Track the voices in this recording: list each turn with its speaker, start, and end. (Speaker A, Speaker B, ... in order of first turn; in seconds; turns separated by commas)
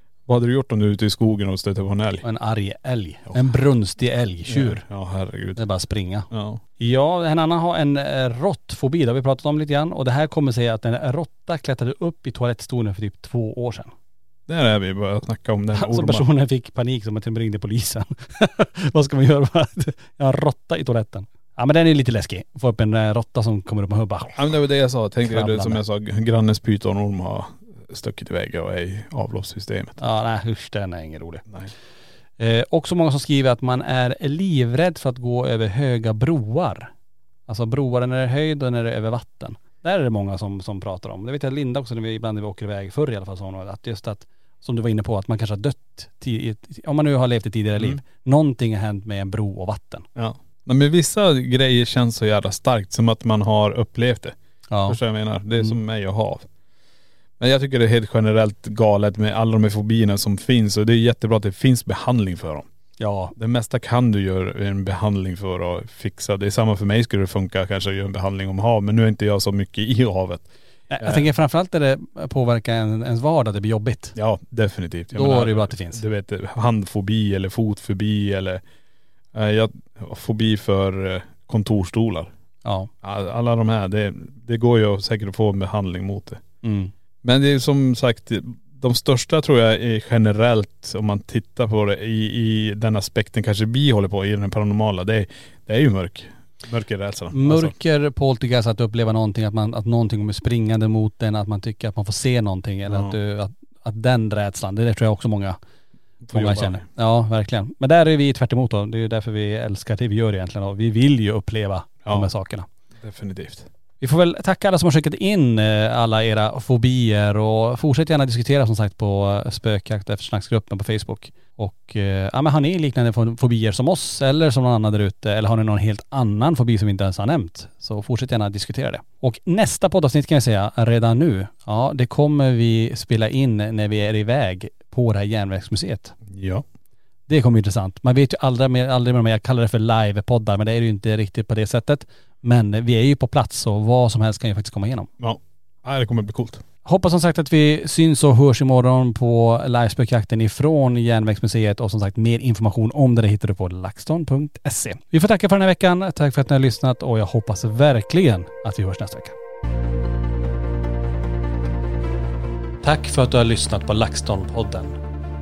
Speaker A: 0.3-2.2, Speaker B: 2.2-4.8, Speaker A: 4.5-5.6, Speaker B: 5.5-13.9, Speaker A: 6.3-6.6, Speaker A: 14.5-16.2, Speaker B: 15.7-24.4, Speaker A: 24.3-30.0, Speaker B: 25.2-25.8, Speaker B: 30.0-31.4, Speaker B: 32.4-36.9, Speaker B: 37.5-50.0, Speaker A: 50.1-54.4, Speaker B: 54.7-55.0, Speaker A: 54.9-56.5, Speaker A: 57.4-62.6, Speaker B: 63.0-63.3, Speaker A: 63.4-71.3, Speaker B: 70.9-74.1, Speaker A: 74.1-78.6, Speaker B: 75.1-76.0, Speaker A: 79.3-82.3, Speaker B: 82.6-82.9, Speaker A: 83.0-86.4, Speaker B: 86.6-86.9, Speaker A: 87.2-97.7, Speaker B: 97.3-105.6, Speaker A: 102.9-103.2, Speaker A: 106.2-106.8, Speaker B: 106.3-112.7, Speaker A: 113.0-113.7, Speaker B: 114.0-136.1, Speaker A: 136.2-136.6, Speaker B: 137.3-145.1, Speaker A: 145.2-146.6, Speaker B: 146.8-159.3, Speaker B: 162.8-165.0